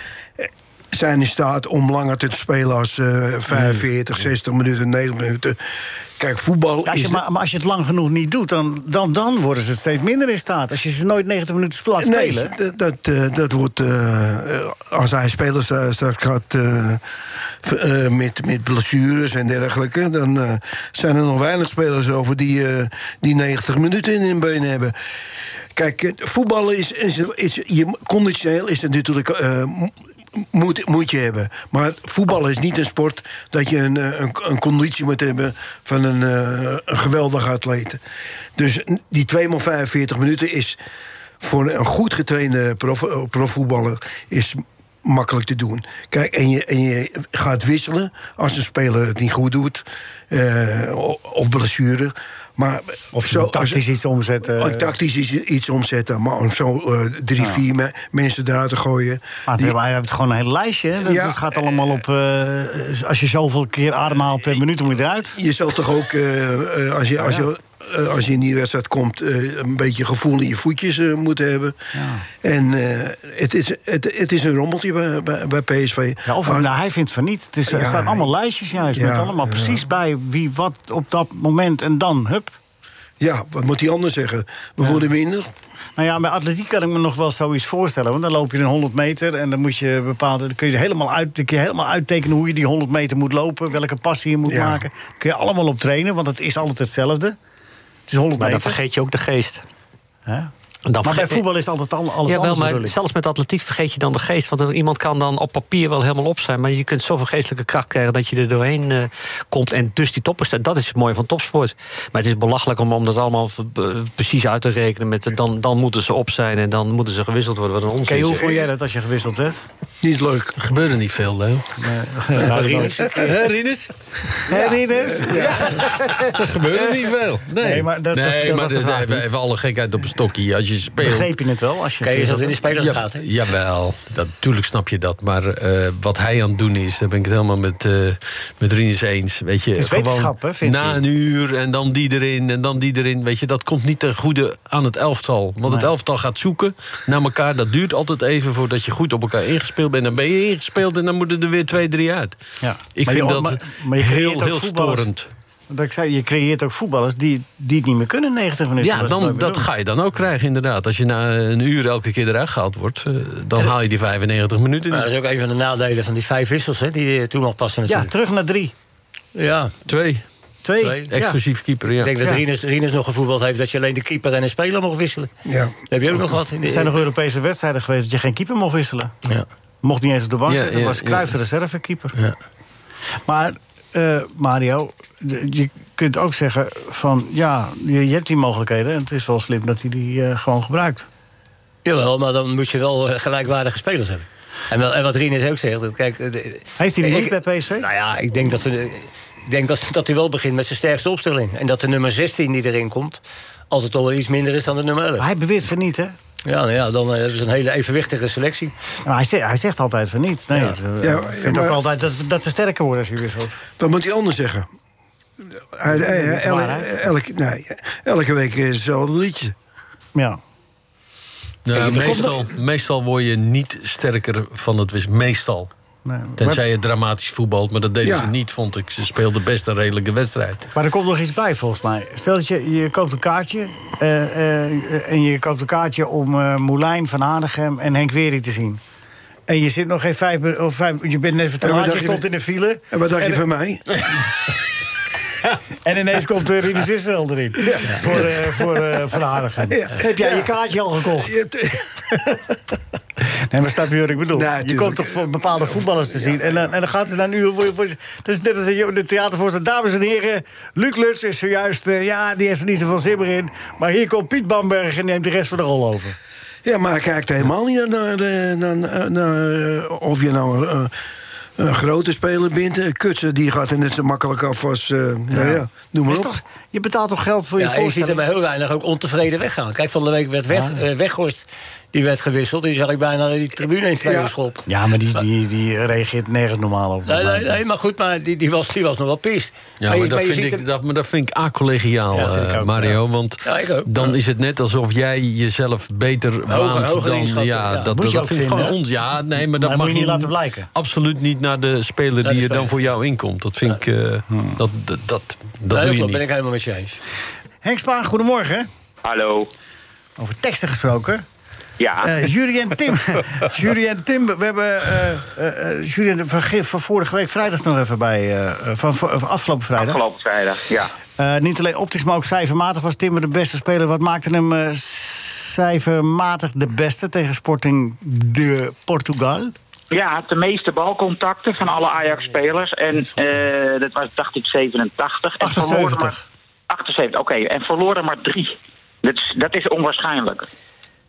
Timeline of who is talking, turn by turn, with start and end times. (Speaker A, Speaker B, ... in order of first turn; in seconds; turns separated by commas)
Speaker A: 0.4-5.6, Speaker A: 6.2-7.2, Speaker B: 6.9-12.5, Speaker A: 12.0-17.0, Speaker A: 17.6-24.9, Speaker A: 25.8-38.0, Speaker A: 38.6-40.8, Speaker A: 41.4-53.8, Speaker B: 53.1-54.9, Speaker A: 54.5-59.8, Speaker B: 59.5-65.4, Speaker A: 61.0-61.5, Speaker A: 65.4-71.8, Speaker B: 67.2-67.5, Speaker B: 71.9-72.3, Speaker A: 72.4-76.7, Speaker B: 76.3-82.6, Speaker A: 77.7-78.3, Speaker A: 78.9-79.8, Speaker A: 83.2-85.5, Speaker B: 86.0-97.4, Speaker A: 94.5-94.8, Speaker B: 98.1-98.8, Speaker C: 98.4-99.6, Speaker B: 100.3-100.5, Speaker C: 100.9-101.4, Speaker B: 101.0-103.0, Speaker C: 102.3-118.6, Speaker B: 118.1-119.7, Speaker A: 120.0-120.6, Speaker D: 120.6-121.8, Speaker B: 121.8-123.3, Speaker E: 122.4-123.3, Speaker D: 123.1-124.2, Speaker B: 124.5-127.0, Speaker A: 125.1-125.7, Speaker D: 125.5-131.3, Speaker B: 127.6-129.3, Speaker B: 131.0-132.6, Speaker E: 132.0-133.2, Speaker D: 132.7-152.4, Speaker B: 139.8-141.0, Speaker B: 152.6-155.1, Speaker D: 152.9-155.3, Speaker B: 155.7-159.7, Speaker D: 158.8-165.1, Speaker E: 164.9-168.1, Speaker B: 167.9-168.7, Speaker E: 169.3-169.8, Speaker D: 169.9-170.2, Speaker B: 170.6-171.4, Speaker E: 170.8-171.1, Speaker D: 171.1-172.2, Speaker E: 172.0-175.3, Speaker A: 175.5-175.7, Speaker E: 175.9-177.0, Speaker B: 176.6-179.1, Speaker B: 179.8-182.1, Speaker D: 180.5-181.3, Speaker B: 183.3-191.1, Speaker E: 191.8-205.3, Speaker B: 196.8-197.9, Speaker B: 205.2-206.2, Speaker E: 206.5-208.7, Speaker B: 209.1-213.6, Speaker A: 211.0-211.8, Speaker A: 213.8-214.7, Speaker A: 215.6-219.5, Speaker B: 215.9-217.0, Speaker B: 220.2-220.4, Speaker D: 221.7-225.7, Speaker B: 221.9-222.3, Speaker B: 226.1-226.6, Speaker D: 226.4-230.7, Speaker A: 228.0-228.3, Speaker B: 230.7-238.8, Speaker B: 239.5-243.4, Speaker A: 241.6-242.2, Speaker A: 242.9-244.0, Speaker B: 245.8-251.3, Speaker A: 247.6-248.4, Speaker A: 249.7-250.5, Speaker A: 251.2-252.4, Speaker B: 253.5-266.2, Speaker A: 254.3-256.6, Speaker A: 266.6-270.9, Speaker A: 271.6-276.3, Speaker B: 275.3-278.2, Speaker E: 277.6-284.6, Speaker B: 280.5-280.8, Speaker A: 284.0-284.3, Speaker B: 284.7-287.6, Speaker E: 287.1-290.6, Speaker D: 289.8-306.2, Speaker B: 292.1-293.0, Speaker E: 293.4-294.1, Speaker E: 296.5-298.0, Speaker B: 297.9-298.8, Speaker B: 299.6-300.7, Speaker E: 302.2-302.7, Speaker B: 304.3-304.6, Speaker E: 305.7-307.0, Speaker B: 307.6-308.7, Speaker F: 309.0-309.5, Speaker B: 310.2-311.2, Speaker F: 311.8-312.1, Speaker B: 312.0-320.0, Speaker F: 319.8-320.9, Speaker B: 321.2-329.6, Speaker F: 329.9-336.2, Speaker B: 335.4-336.2, Speaker F: 336.7-340.5